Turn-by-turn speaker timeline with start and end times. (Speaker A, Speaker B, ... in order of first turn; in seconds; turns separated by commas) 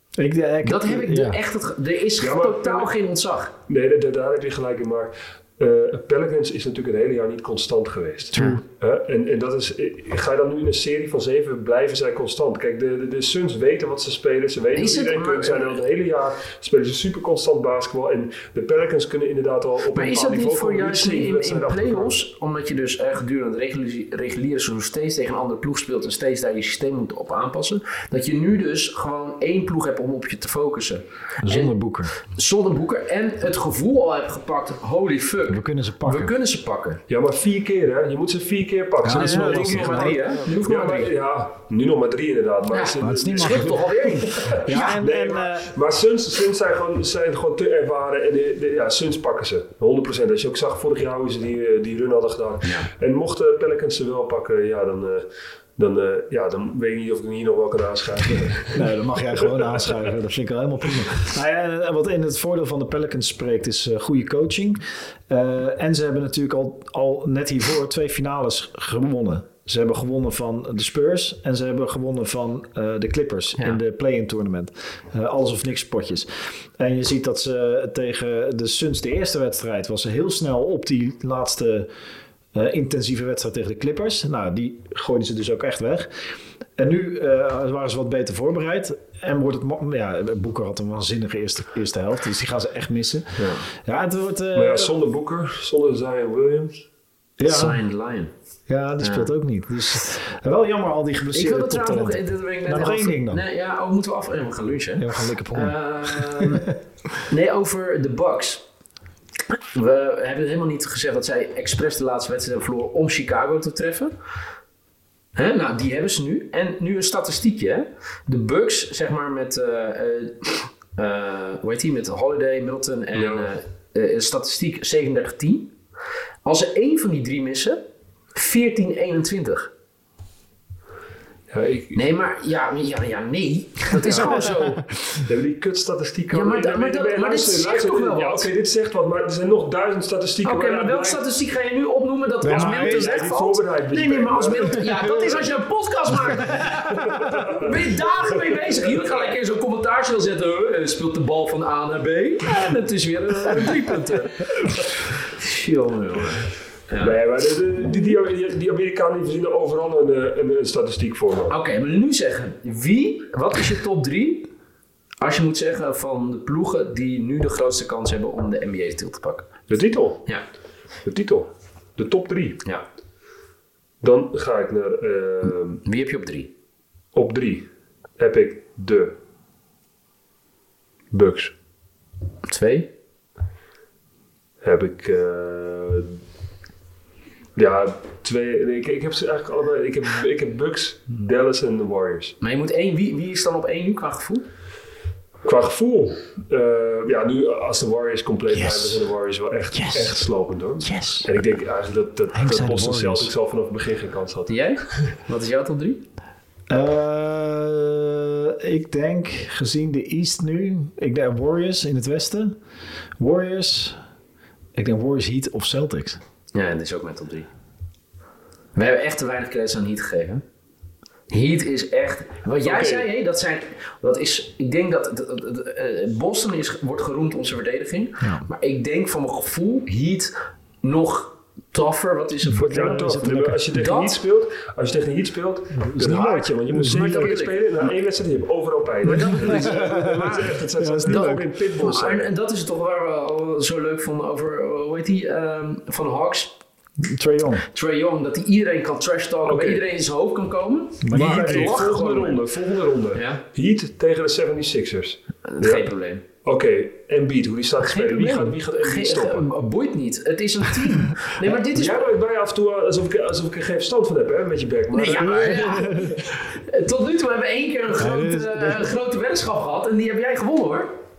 Speaker A: 0.2-1.4, Speaker B: 0.6-3.5, Speaker C: 2.2-2.9, Speaker C: 3.7-22.2, Speaker A: 8.3-8.6, Speaker B: 14.7-15.8, Speaker B: 19.9-37.0, Speaker A: 31.4-32.1, Speaker A: 35.5-36.3, Speaker C: 37.1-55.2, Speaker A: 39.0-40.4, Speaker B: 39.1-41.1, Speaker B: 42.7-45.0, Speaker A: 43.0-45.7, Speaker B: 52.6-52.9, Speaker C: 55.8-58.9, Speaker A: 58.7-81.9, Speaker C: 59.4-59.7, Speaker A: 82.5-86.1, Speaker A: 86.8-94.9, Speaker C: 94.5-96.8, Speaker A: 97.4-97.8, Speaker B: 97.4-98.3, Speaker A: 98.7-103.4, Speaker B: 99.0-99.3, Speaker B: 101.3-106.7, Speaker A: 105.0-106.7, Speaker B: 107.3-108.6, Speaker B: 109.5-114.1, Speaker B: 115.3-125.7, Speaker C: 123.1-123.5, Speaker B: 126.4-129.7, Speaker C: 131.5-132.0, Speaker B: 131.9-134.8, Speaker C: 134.0-134.5, Speaker C: 135.2-141.2, Speaker B: 136.3-138.5, Speaker B: 140.4-157.2, Speaker A: 142.4-143.2, Speaker C: 142.4-144.8, Speaker A: 144.7-145.4, Speaker A: 146.1-147.4, Speaker C: 147.0-147.8, Speaker C: 157.0-161.5, Speaker B: 161.5-164.5, Speaker B: 165.2-169.5, Speaker C: 169.7-170.3, Speaker C: 171.0-172.6, Speaker C: 174.0-175.8, Speaker B: 175.8-176.5, Speaker C: 177.1-177.6, Speaker C: 178.2-179.1, Speaker C: 181.1-181.5, Speaker B: 182.4-182.9, Speaker C: 184.6-186.1, Speaker C: 187.6-192.3, Speaker B: 192.4-194.4, Speaker C: 195.4-205.0, Speaker A: 198.5-199.0, Speaker A: 199.7-200.3, Speaker A: 200.8-201.3, Speaker A: 202.3-203.3, Speaker B: 204.5-206.0, Speaker A: 206.7-212.6, Speaker A: 213.2-214.0, Speaker A: 214.8-216.2, Speaker B: 216.5-217.5, Speaker B: 218.7-220.4, Speaker B: 221.3-233.2, Speaker C: 222.6-223.1, Speaker A: 228.2-228.5, Speaker A: 232.4-233.6, Speaker C: 232.6-242.3, Speaker B: 233.7-234.2, Speaker A: 235.7-237.3, Speaker B: 236.9-237.6, Speaker B: 239.0-240.5, Speaker A: 239.1-241.5, Speaker B: 241.1-246.5, Speaker A: 247.0-247.7, Speaker B: 247.7-252.4, Speaker C: 249.4-249.8, Speaker A: 251.0-251.8, Speaker C: 251.1-255.9, Speaker B: 253.1-253.4, Speaker B: 255.5-256.2, Speaker C: 256.4-259.5, Speaker B: 257.8-262.1, Speaker C: 261.4-265.9, Speaker B: 264.9-270.9, Speaker A: 265.2-266.3, Speaker A: 268.0-268.9